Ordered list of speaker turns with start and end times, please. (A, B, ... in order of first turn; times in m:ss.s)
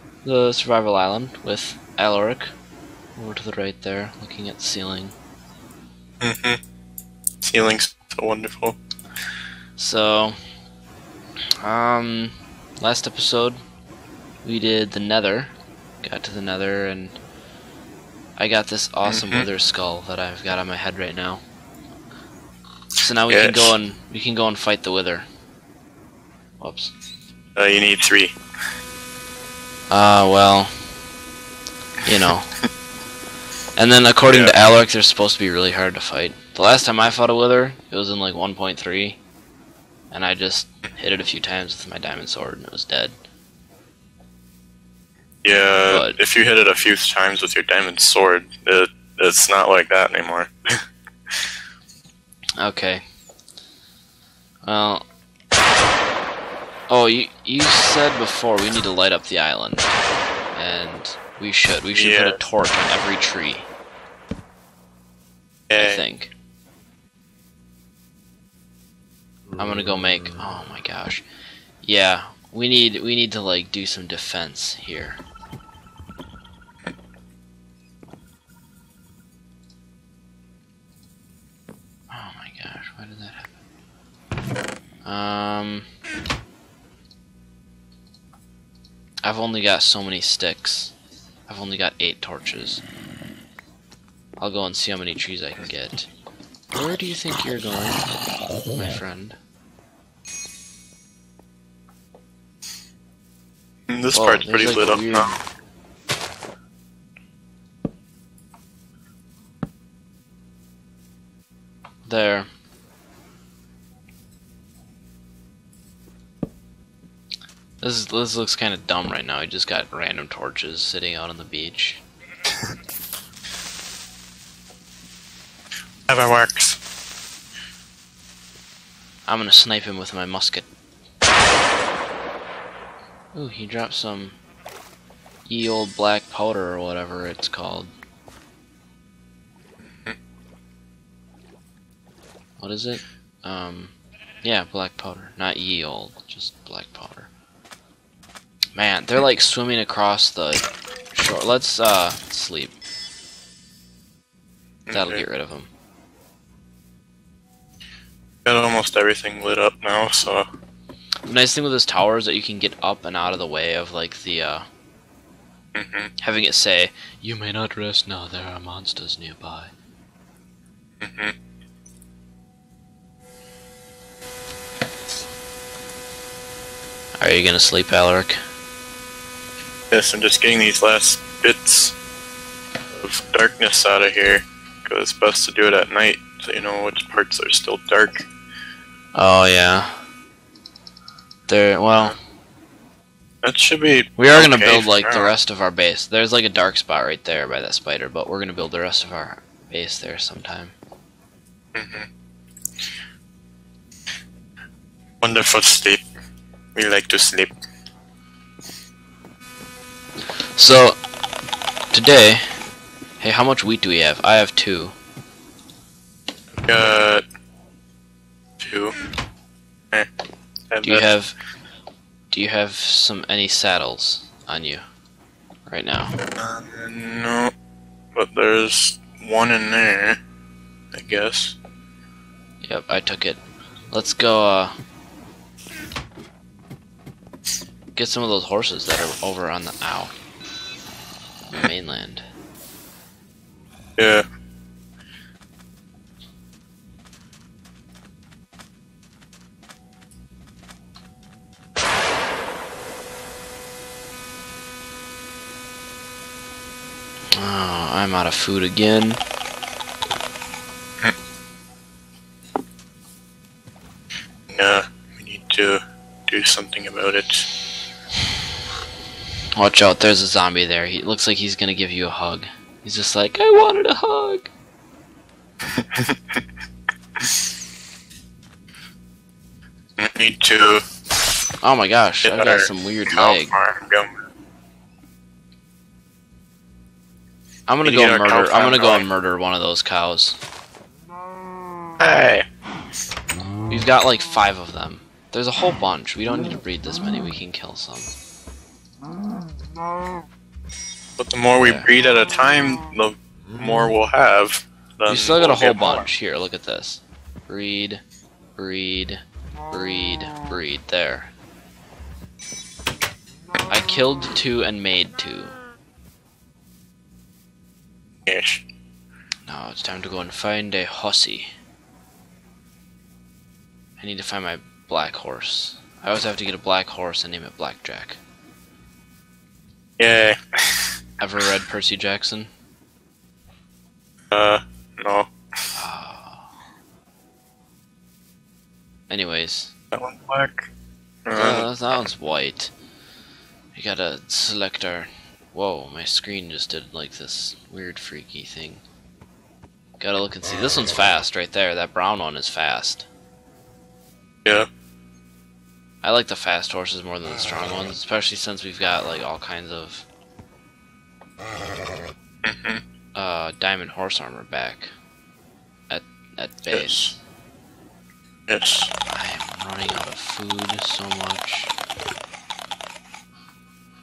0:00.2-0:02.5 A
0:03.2-0:05.1 A
0:06.2-0:06.6 B
0:07.4-0:08.8 B
0:09.8-0:10.4 A
0:11.6-0:13.6 A
0:14.4-0:17.2 A
0:18.4-0:21.4 A
0:19.1-0:19.5 B
0:23.0-0:25.3 A
0:23.3-0:23.7 B
0:26.6-0:26.9 A
0:27.6-0:28.4 B
0:29.9-0:30.7 A
0:32.0-0:32.5 A
0:33.8-0:39.2 A
0:34.3-0:34.6 B
0:40.1-0:43.1 A
0:45.4-0:50.5 B
0:45.9-0:46.2 A
0:52.6-0:53.0 A
0:54.6-0:55.0 A
0:56.9-1:00.0 A
1:00.5-1:03.7 A
1:01.9-1:02.4 B
1:05.7-1:06.0 B
1:05.8-1:06.3 A
1:09.6-1:11.2 A
1:11.8-1:15.2 A
1:22.1-1:23.5 A
1:25.0-1:25.9 A
1:29.2-1:30.9 A
1:31.5-1:32.8 A
1:34.4-1:36.1 A
1:36.7-1:38.0 A
1:38.7-1:39.4 A
1:43.9-1:45.4 B
1:44.1-1:45.4 A
1:52.0-1:52.5 A
1:57.8-2:02.0 A
2:06.1-2:06.8 B
2:09.3-2:10.7 A
2:13.3-2:14.4 A
2:15.5-2:17.9 A
2:22.6-2:27.3 A
2:28.8-2:32.8 A
2:34.9-2:35.2 B
2:34.9-2:35.7 A
2:38.4-2:40.5 B
2:41.3-2:44.7 A
2:45.8-2:46.1 B
2:46.2-2:49.7 A
2:51.0-2:51.4 B
2:57.2-2:58.4 A
2:59.9-3:02.0 B
3:03.0-3:08.3 B
3:09.2-3:10.0 A
3:11.5-3:12.2 A
3:13.4-3:15.3 B
3:14.2-3:20.8 A
3:21.7-3:22.1 B
3:25.2-3:26.0 B
3:26.8-3:27.6 B
3:30.6-3:31.0 A
3:31.9-3:32.6 A
3:33.2-3:35.0 A
3:36.6-3:37.2 B
3:38.6-3:39.0 B
3:40.7-3:41.1 B
3:40.8-3:41.4 A
3:42.3-3:44.8 A
3:45.7-3:46.2 A
3:46.4-3:47.5 B
3:48.1-3:50.2 B
3:50.9-3:51.6 B
3:52.6-3:54.7 A
3:58.0-4:00.2 A
4:01.5-4:02.2 A
4:04.0-4:04.3 B
4:17.3-4:19.2 A
4:24.5-4:27.5 B
4:29.6-4:34.5 A
4:35.8-4:36.4 B
4:40.0-4:40.8 B
4:41.6-4:43.6 A
4:42.2-4:44.1 B
4:47.7-4:50.4 A
4:47.8-4:49.1 B
4:52.0-4:52.4 B
4:53.7-4:58.1 A
5:01.2-5:06.1 B
5:01.6-5:01.9 A
5:05.1-5:08.0 A
5:08.6-5:11.3 A
5:13.7-5:15.6 A
5:18.3-5:18.6 B
5:19.5-5:21.5 A
5:24.0-5:28.2 A
5:30.0-5:30.9 B
5:31.2-5:32.5 A
5:34.3-5:35.3 B
5:35.8-5:36.5 A
5:39.1-5:39.7 A
5:39.9-5:40.7 B
5:41.3-5:41.7 B
5:41.3-5:42.7 A
5:43.7-5:48.8 A
5:50.0-5:53.1 A
5:56.0-6:00.1 A
6:02.4-6:02.8 B
6:03.2-6:04.9 A
6:05.9-6:07.2 A
6:06.7-6:07.1 B
6:08.5-6:08.9 B
6:09.1-6:11.7 A